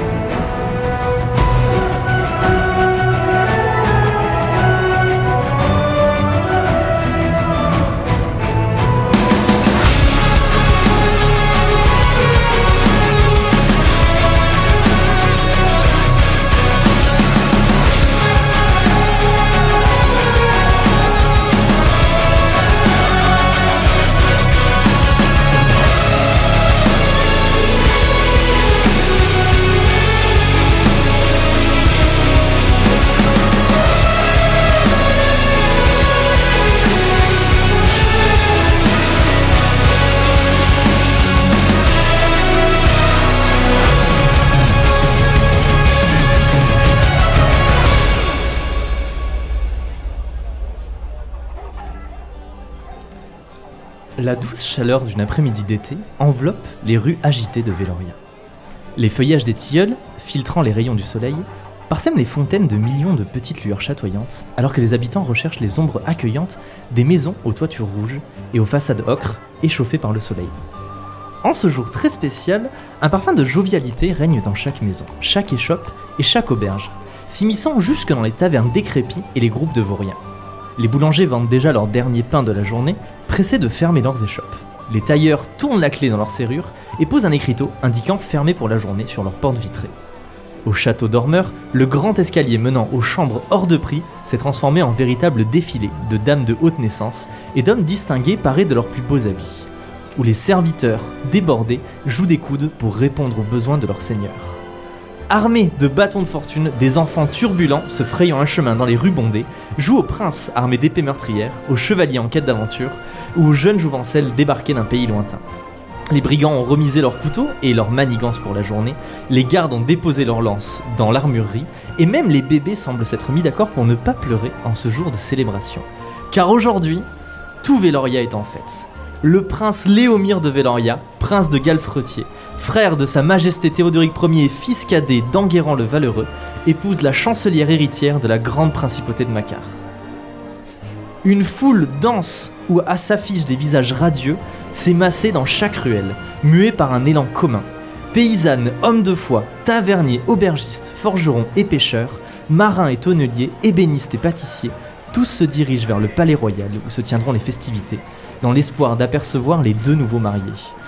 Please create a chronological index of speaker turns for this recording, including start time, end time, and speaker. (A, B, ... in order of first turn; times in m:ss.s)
0:54.2-0:58.2 A
0:59.0-1:10.6 A
1:11.4-1:20.2 A
1:20.8-1:29.9 A
1:30.6-1:44.6 A
1:45.3-1:55.4 A
1:56.1-2:07.1 A
2:07.6-2:19.8 A
2:21.2-2:40.7 A